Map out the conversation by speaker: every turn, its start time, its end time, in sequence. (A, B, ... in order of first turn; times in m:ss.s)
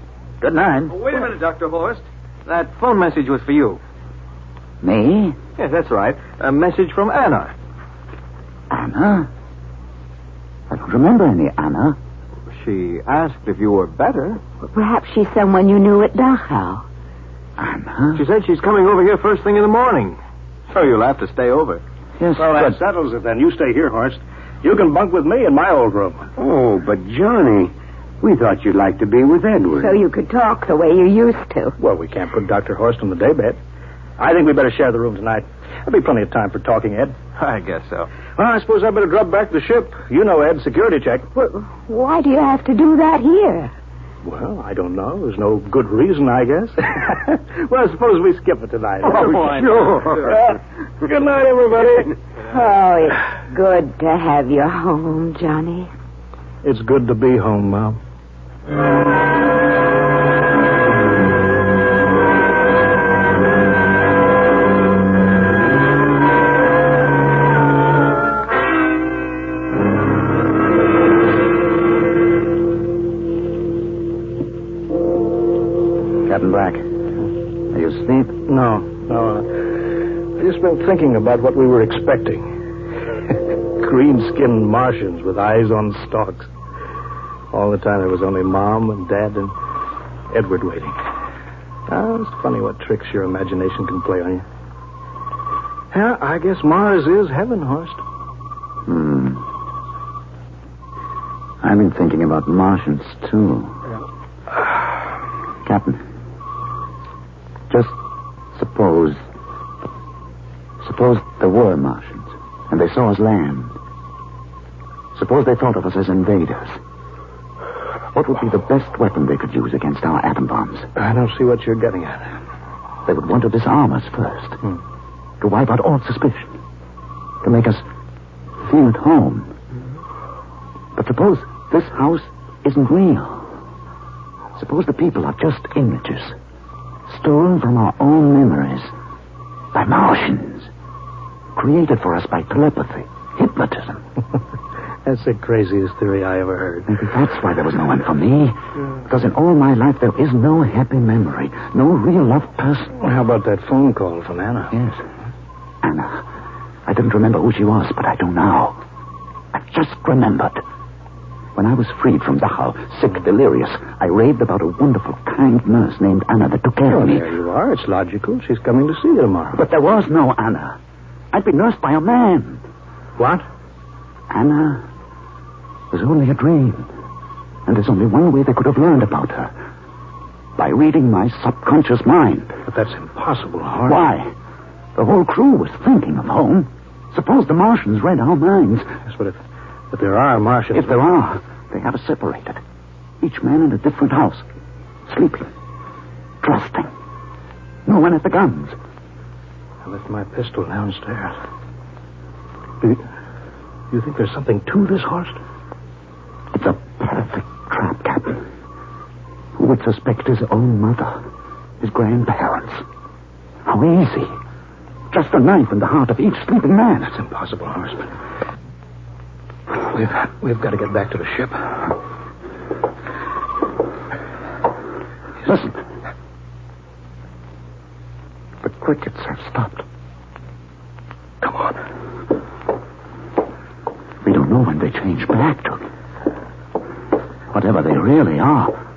0:00.4-0:01.0 A
0:00.9-0:03.8 B
0:04.8-0:05.4 A
0:05.6-0:07.5 B
0:08.7-0:09.3 A
0:10.7-0:12.0 A
0:12.5-0:14.4 B
0:14.6-0:16.8 C
0:17.6-0:18.2 A
0:18.1-0:21.8 B
0:22.2-0:22.8 A
0:22.4-0:26.3 D
0:26.4-0:30.0 E
0:29.8-0:31.8 C
0:31.8-0:33.6 D
0:34.2-0:37.2 D
0:37.4-0:38.1 B
0:38.4-0:41.3 D
0:41.4-0:43.7 C
0:44.2-0:52.1 D
0:49.1-0:50.3 E
0:52.5-0:55.9 C
0:56.6-0:58.0 D
1:16.2-1:16.8 A
1:17.7-1:18.4 A
1:18.5-1:19.7 D
1:20.4-1:22.4 D
1:23.7-1:26.5 D
1:27.5-1:29.5 D
1:30.3-1:31.0 D
1:31.9-1:34.4 D
1:35.9-1:38.0 D
1:38.9-1:39.4 A
1:41.6-1:43.8 A
1:45.6-1:46.0 A
1:47.7-1:48.0 A
1:48.5-1:49.2 A
1:50.8-1:53.8 A
1:55.2-1:56.8 A
1:58.1-2:00.9 A
2:01.0-2:02.3 D
2:03.1-2:04.6 A
2:05.4-2:06.6 A
2:07.4-2:07.8 A
2:08.6-2:09.5 A
2:11.0-2:13.5 A
2:14.6-2:16.4 A
2:17.1-2:18.9 A
2:19.7-2:20.7 A
2:21.6-2:24.0 A
2:25.1-2:27.0 D
2:26.9-2:32.9 A
2:33.0-2:34.7 D
2:34.7-2:35.0 A
2:35.8-2:36.2 A
2:36.9-2:38.8 A
2:39.5-2:40.6 A
2:41.6-2:47.3 A
2:46.9-2:49.6 D
2:49.5-2:50.8 A
2:51.3-2:52.6 A
2:53.2-2:53.4 D
2:54.3-2:54.8 A
2:55.9-2:56.9 A
2:57.7-2:59.5 A
3:00.6-3:02.5 A
3:02.7-3:04.0 D
3:03.9-3:04.3 A
3:05.0-3:08.9 A
3:09.0-3:09.4 D
3:09.9-3:11.0 D
3:10.7-3:12.6 A
3:13.2-3:14.4 A
3:15.1-3:15.5 A
3:16.4-3:16.9 A
3:17.9-3:18.8 A
3:19.8-3:21.4 D
3:23.9-3:25.4 D
3:26.5-3:28.4 A
3:29.6-3:31.2 A
3:31.8-3:32.8 A
3:33.7-3:34.4 A
3:35.1-3:37.2 A
3:37.1-3:38.1 D
3:39.7-3:41.8 D
3:45.4-3:45.8 A
3:48.6-3:49.8 A
3:51.4-3:51.8 D
3:54.2-3:55.9 A
3:57.5-3:58.8 A